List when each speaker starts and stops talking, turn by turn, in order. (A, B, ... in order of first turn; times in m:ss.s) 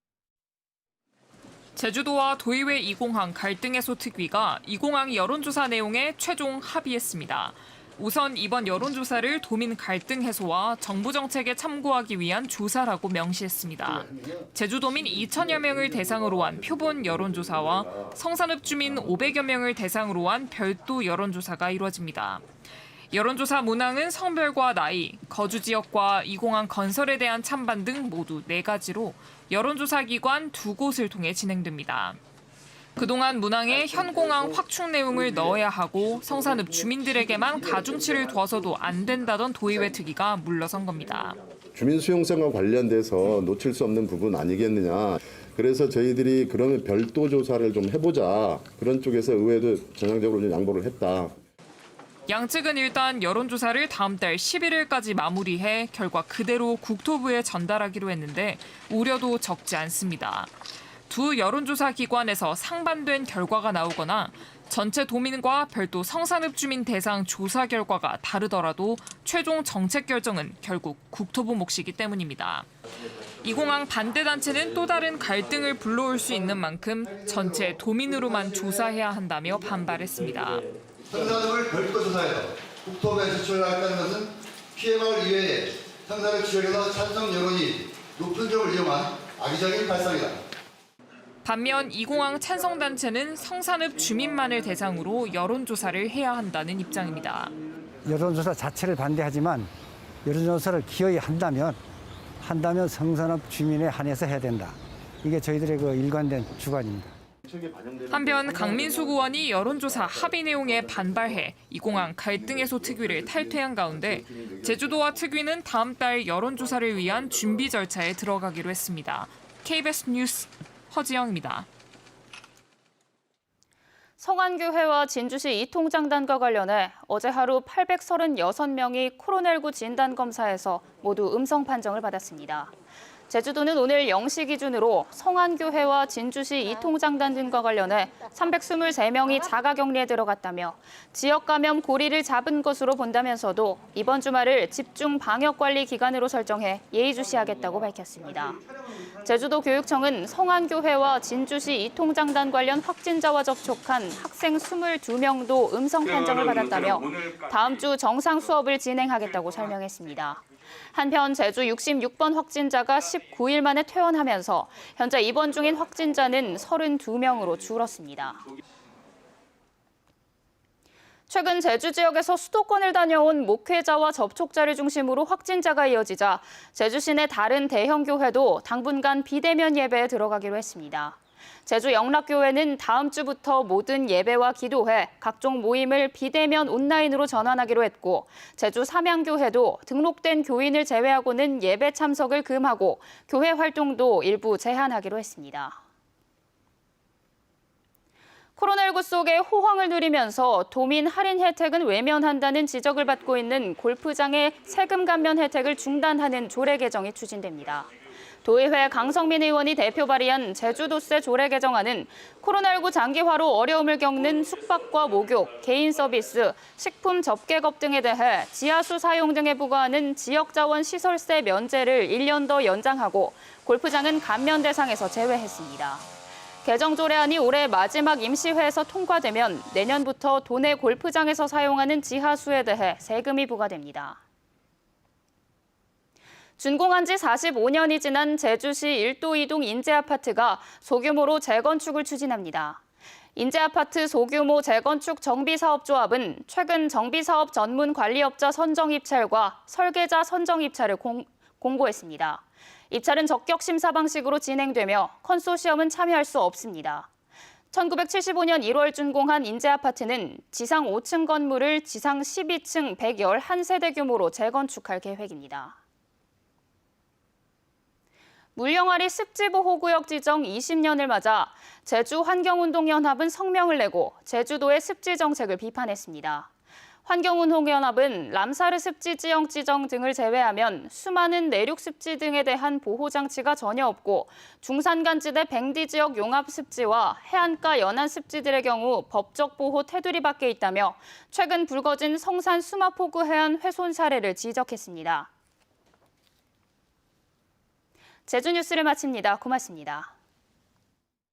0:01.8-0:22.4 A
0:15.4-0:19.4 B
0:23.1-0:32.2 A
0:33.0-0:41.4 A
0:41.6-0:51.4 B
0:52.3-1:00.5 A
1:01.1-1:12.7 A
1:13.4-1:20.7 A
1:17.1-1:18.8 C
1:21.1-1:30.4 C
1:31.4-1:37.5 A
1:38.0-1:39.7 D
1:40.2-1:41.8 D
1:42.4-1:47.1 D
1:47.4-1:55.3 B
1:48.1-2:01.7 A
1:56.7-1:57.6 B
2:04.2-2:12.7 E
2:13.3-2:28.6 E
2:29.2-2:48.4 E
2:51.3-3:15.8 E
3:18.6-3:27.9 E
3:28.4-3:46.1 E
3:46.6-3:54.2 E
3:56.6-4:02.8 E
4:03.4-4:17.1 E
4:17.7-4:25.8 E
4:28.6-4:36.5 E
4:37.0-4:55.3 E
4:58.3-5:00.1 E